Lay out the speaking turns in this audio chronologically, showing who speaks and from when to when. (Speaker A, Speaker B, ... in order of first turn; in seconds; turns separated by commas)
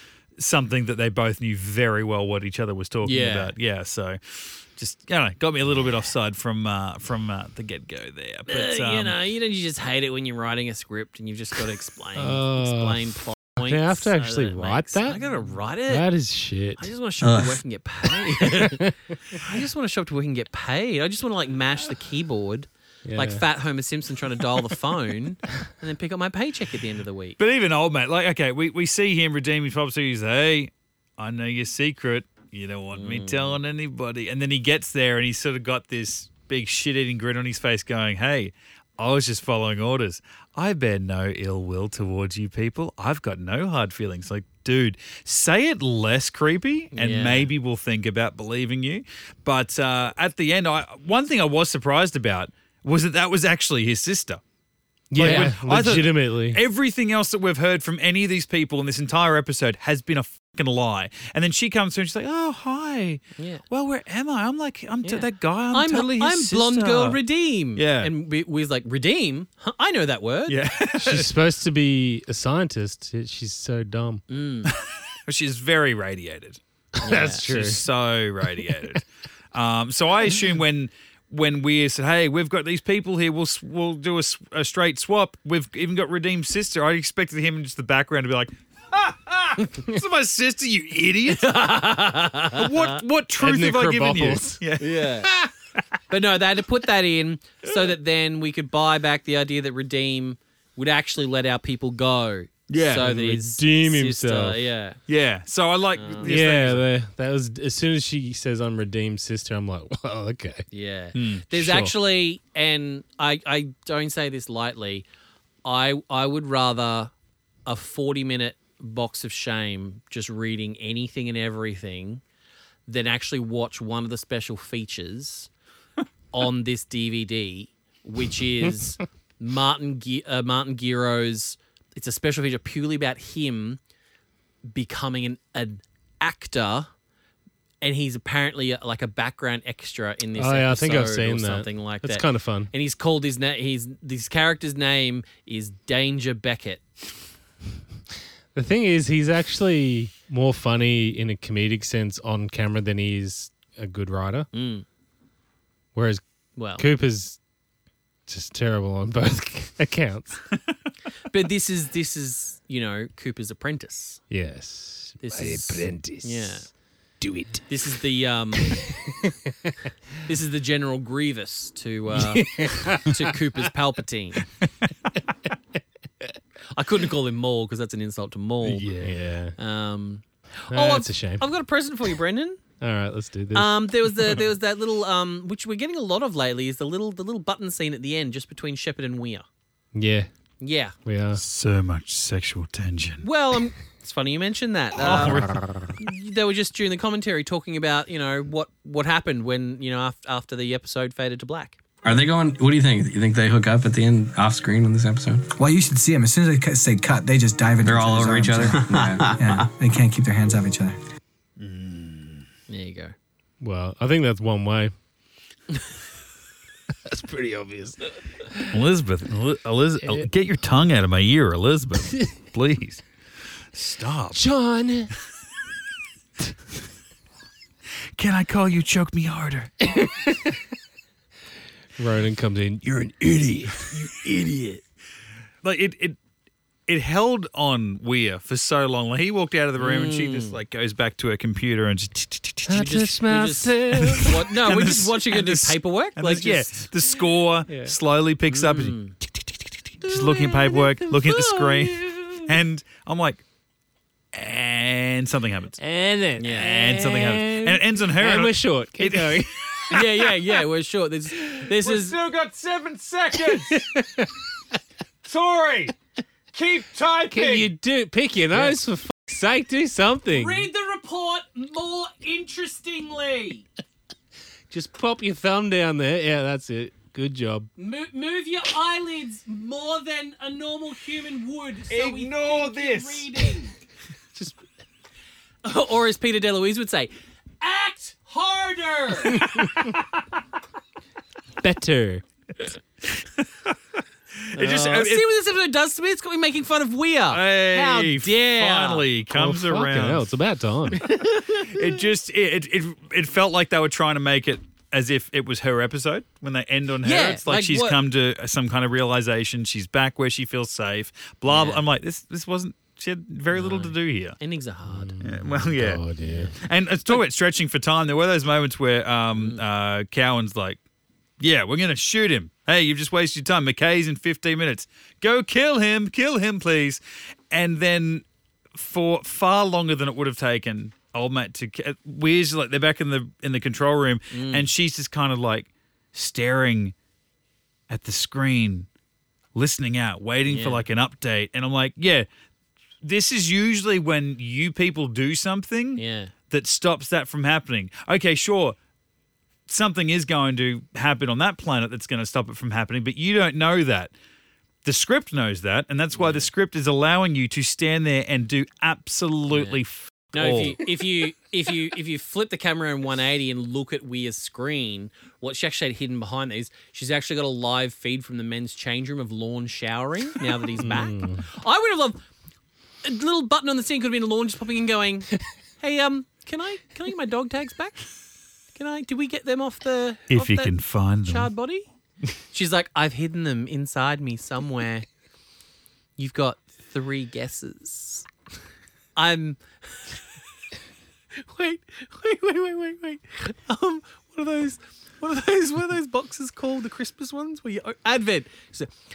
Speaker A: 0.4-9.2, Speaker B: 3.0-3.5, Speaker B: 8.5-16.1, Speaker C: 12.2-15.3, Speaker C: 15.9-16.9, Speaker B: 16.8-27.4, Speaker D: 17.2-17.6, Speaker C: 18.2-19.1, Speaker C: 23.1-23.4, Speaker A: 27.4-54.4, Speaker B: 32.9-33.6, Speaker B: 46.9-47.5, Speaker C: 55.1-56.6, Speaker A: 55.2-67.2, Speaker B: 55.2-55.5, Speaker B: 63.4-63.6, Speaker B: 65.0-70.6, Speaker A: 67.8-68.1, Speaker A: 70.5-71.3, Speaker C: 71.0-74.2, Speaker B: 74.3-74.7, Speaker A: 75.3-76.6, Speaker C: 77.0-77.8, Speaker B: 77.0-77.5, Speaker A: 77.2-91.8, Speaker B: 91.3-92.9, Speaker A: 92.5-95.0, Speaker C: 93.4-94.6, Speaker B: 94.8-95.3, Speaker B: 96.1-105.0, Speaker A: 102.7-103.2, Speaker C: 103.0-104.6, Speaker A: 105.1-106.9, Speaker B: 105.9-106.4, Speaker C: 106.2-110.7, Speaker B: 110.7-115.1, Speaker A: 111.2-111.5, Speaker C: 111.5-111.9, Speaker B: 115.7-117.1, Speaker B: 117.7-122.2, Speaker B: 122.9-125.5, Speaker B: 126.3-133.8, Speaker B: 134.7-136.9, Speaker B: 137.8-146.8, Speaker C: 140.3-142.7, Speaker C: 148.5-154.5, Speaker B: 154.5-154.8, Speaker C: 155.9-157.4, Speaker B: 156.6-156.9, Speaker C: 158.3-160.4, Speaker B: 161.3-164.2, Speaker C: 164.3-166.7, Speaker B: 165.2-166.7, Speaker C: 167.2-167.8, Speaker B: 167.7-168.8, Speaker C: 168.6-169.9, Speaker B: 170.2-174.4, Speaker C: 172.1-173.3, Speaker B: 176.7-178.9, Speaker A: 178.6-179.2, Speaker C: 179.0-179.6, Speaker B: 179.6-182.6, Speaker C: 180.7-181.4, Speaker C: 182.8-183.9, Speaker B: 183.5-189.5, Speaker C: 189.9-190.3, Speaker B: 190.6-190.9, Speaker C: 191.1-191.4, Speaker A: 191.4-193.2, Speaker B: 193.2-195.5, Speaker A: 195.0-195.6, Speaker B: 196.0-201.8, Speaker D: 202.0-205.5, Speaker E: 205.6-211.0, Speaker D: 207.8-209.7, Speaker A: 211.6-212.4, Speaker B: 212.7-213.2, Speaker C: 213.6-214.9, Speaker C: 217.1-218.8, Speaker A: 218.7-223.0, Speaker C: 220.0-220.3, Speaker A: 223.7-224.4, Speaker C: 224.3-225.1, Speaker A: 228.2-229.9, Speaker C: 229.9-230.6, Speaker C: 232.0-233.9, Speaker B: 234.0-234.8, Speaker A: 235.6-236.2, Speaker A: 236.9-242.8, Speaker B: 239.8-240.6, Speaker C: 242.7-244.4, Speaker B: 242.7-246.9, Speaker A: 244.5-253.4, Speaker C: 247.7-247.9, Speaker B: 248.5-249.2, Speaker C: 250.0-252.6, Speaker A: 254.3-255.8, Speaker C: 255.8-260.4, Speaker B: 256.4-256.7, Speaker A: 256.6-259.9, Speaker B: 259.9-262.2, Speaker A: 261.7-263.9, Speaker C: 263.4-264.5, Speaker A: 265.2-265.9, Speaker A: 266.5-267.7, Speaker C: 267.3-270.7, Speaker B: 270.3-273.7, Speaker C: 274.7-277.7, Speaker B: 277.8-283.7, Speaker A: 281.9-283.5, Speaker C: 284.4-284.6, Speaker B: 285.6-289.6, Speaker C: 289.4-289.8, Speaker C: 291.6-292.2, Speaker A: 294.5-295.3, Speaker B: 294.5-299.1, Speaker A: 297.3-300.3, Speaker C: 299.3-301.1, Speaker B: 301.1-301.8, Speaker A: 301.5-314.4, Speaker B: 307.0-308.0, Speaker B: 311.5-311.8, Speaker B: 313.5-315.1, Speaker C: 314.9-316.6, Speaker A: 315.2-316.0, Speaker B: 316.2-316.5, Speaker A: 316.6-320.8, Speaker B: 319.4-319.6, Speaker A: 321.4-328.2, Speaker A: 328.8-336.9, Speaker B: 334.3-334.7, Speaker A: 337.9-338.9, Speaker A: 339.6-342.3, Speaker B: 340.5-340.8, Speaker A: 343.0-348.8, Speaker B: 346.0-346.3, Speaker A: 349.7-354.1, Speaker A: 354.8-360.8, Speaker B: 356.1-356.5, Speaker B: 359.5-359.8, Speaker B: 360.3-372.2, Speaker C: 370.8-371.4, Speaker B: 373.0-375.3, Speaker B: 375.8-378.1, Speaker B: 378.8-381.9, Speaker A: 380.3-381.5, Speaker B: 382.5-385.1, Speaker B: 386.2-388.3, Speaker B: 389.2-390.1, Speaker B: 391.4-398.9